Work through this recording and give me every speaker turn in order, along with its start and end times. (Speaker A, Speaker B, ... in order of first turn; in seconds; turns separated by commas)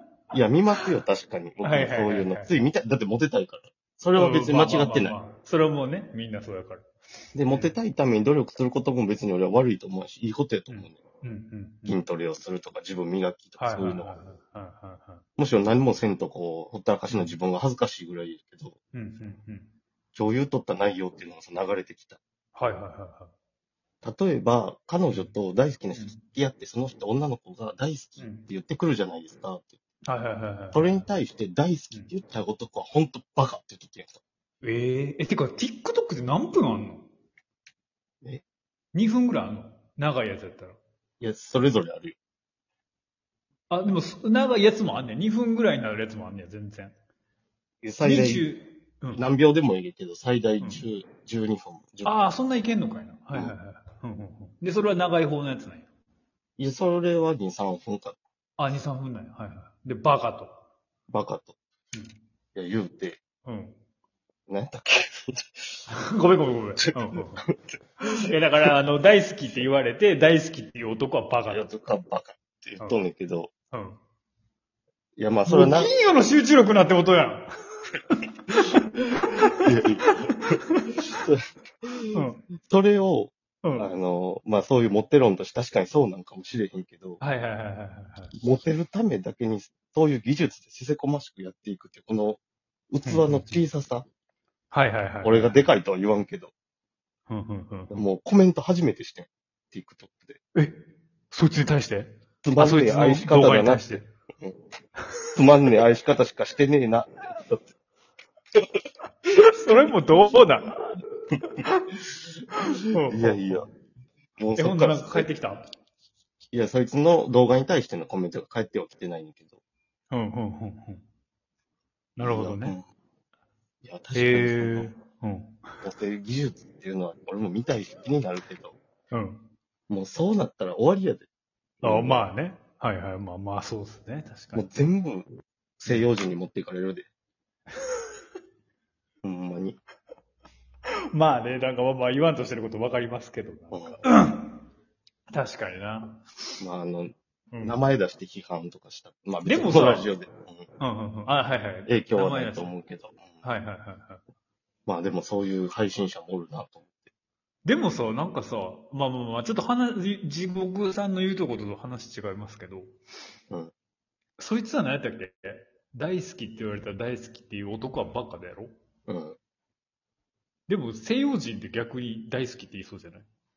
Speaker A: 0.3-5.2, Speaker B: 1.6-2.5, Speaker B: 4.1-6.8, Speaker A: 7.3-11.0, Speaker B: 7.5-7.7, Speaker B: 10.7-12.0, Speaker A: 11.8-14.1, Speaker B: 13.6-15.2, Speaker A: 15.4-18.7, Speaker B: 18.9-19.7, Speaker A: 20.1-22.2, Speaker B: 22.6-23.3, Speaker A: 24.0-29.8, Speaker B: 25.1-25.3, Speaker B: 28.2-28.5, Speaker B: 30.1-31.1, Speaker A: 30.7-34.2, Speaker B: 34.6-37.0, Speaker B: 38.9-40.8, Speaker A: 41.2-42.1, Speaker B: 43.7-46.9, Speaker A: 47.8-48.5, Speaker B: 48.0-49.2, Speaker A: 49.1-52.2, Speaker B: 52.0-55.9, Speaker A: 56.6-58.2, Speaker B: 58.6-60.6, Speaker A: 61.1-61.5, Speaker A: 62.5-63.2, Speaker B: 63.5-63.8, Speaker A: 64.5-65.8, Speaker B: 65.9-67.4, Speaker A: 66.8-67.6, Speaker B: 68.0-71.7, Speaker A: 71.5-73.5, Speaker B: 73.7-74.0, Speaker A: 75.2-75.9, Speaker B: 75.5-77.5, Speaker B: 78.1-80.9, Speaker A: 79.6-87.2, Speaker B: 82.1-82.4, Speaker B: 83.6-83.9, Speaker B: 87.2-88.3, Speaker A: 88.4-92.4, Speaker A: 92.9-94.0, Speaker B: 93.0-93.6, Speaker B: 94.7-95.5, Speaker A: 95.2-96.5, Speaker B: 97.3-98.0, Speaker A: 97.9-100.4, Speaker B: 101.3-104.1, Speaker A: 102.4-104.5, Speaker A: 105.3-107.7, Speaker B: 109.5-111.0, Speaker B: 112.6-113.6, Speaker A: 113.1-113.7, Speaker A: 114.4-115.3, Speaker B: 114.6-115.7, Speaker A: 116.5-119.6, Speaker B: 120.1-121.0, Speaker B: 122.2-122.8, Speaker A: 122.2-122.8, Speaker A: 123.8-124.9, Speaker B: 124.1-125.6, Speaker A: 125.8-128.8, Speaker B: 129.1-129.4, Speaker A: 129.9-131.2, Speaker A: 131.8-132.3, Speaker B: 131.8-134.7, Speaker A: 134.5-135.3, Speaker A: 135.8-137.1, Speaker A: 139.2-139.8, Speaker B: 141.1-144.6, Speaker A: 143.7-144.0, Speaker B: 145.3-146.3, Speaker A: 146.6-150.7, Speaker B: 147.5-147.8, Speaker B: 149.4-150.1, Speaker B: 150.8-152.7, Speaker A: 151.9-153.3, Speaker B: 153.4-154.2, Speaker A: 154.8-157.0, Speaker B: 157.6-162.9, Speaker B: 164.4-168.7, Speaker A: 169.1-169.3, Speaker B: 170.7-173.2